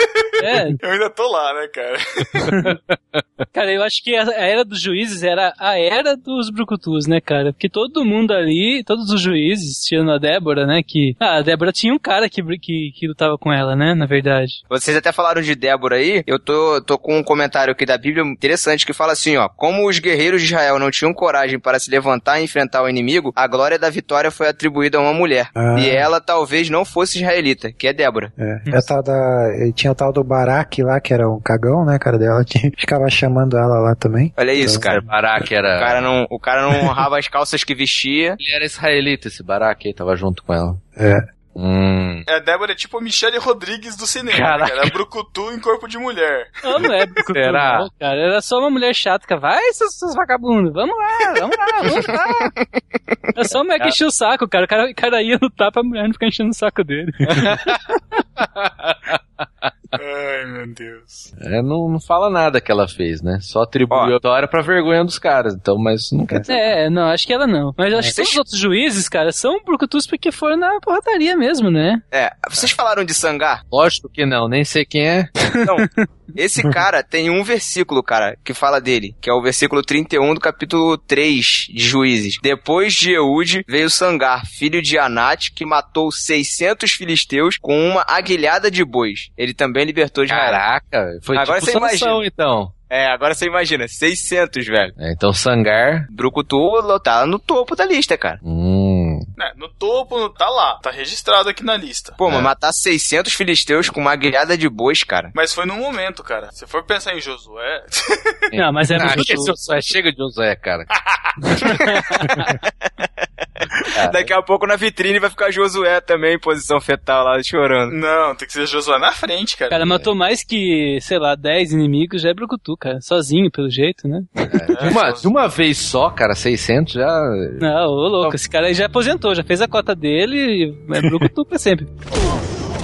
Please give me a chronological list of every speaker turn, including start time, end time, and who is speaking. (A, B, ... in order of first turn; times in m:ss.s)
0:00.4-0:00.8 A
0:00.8-0:02.4 B
0:02.6-0:03.4 C
0:03.5-0:14.6 A
0:14.7-0:28.3 D
0:25.5-0:26.0 E
0:28.4-0:34.9 E
0:34.4-0:35.0 D
0:34.9-0:36.1 C
0:35.7-0:38.4 D
0:38.4-0:40.8 C
0:41.0-0:41.2 E
0:41.5-0:42.2 C
0:42.3-0:46.6 B
0:44.3-0:45.0 C
0:46.6-0:52.5 A
0:47.3-0:47.9 C
0:53.3-0:57.5 A
0:57.2-0:57.8 C
0:58.4-0:59.7 C
0:59.9-1:01.3 B
1:01.4-1:06.7 C
1:03.9-1:04.1 D
1:06.5-1:12.0 A
1:08.1-1:08.4 D
1:12.1-1:13.6 D
1:13.7-1:15.3 C
1:15.6-1:30.6 D
1:15.8-1:16.0 A
1:30.3-1:32.7 C
1:31.3-1:32.2 D
1:32.9-1:34.9 D
1:35.0-1:36.1 C
1:36.1-1:38.4 D
1:38.4-1:39.2 C
1:39.4-1:42.2 B
1:42.2-1:45.3 D
1:42.2-1:42.5 C
1:45.3-1:48.4 B
1:48.5-1:50.9 C
1:48.5-1:49.5 A
1:51.7-1:52.2 A
1:54.0-1:54.3 C
1:54.1-1:57.9 D
1:57.9-1:59.8 B
1:59.7-2:04.4 A
1:59.8-2:00.1 C
2:04.5-2:07.6 C
2:04.7-2:05.3 B
2:07.6-2:11.9 A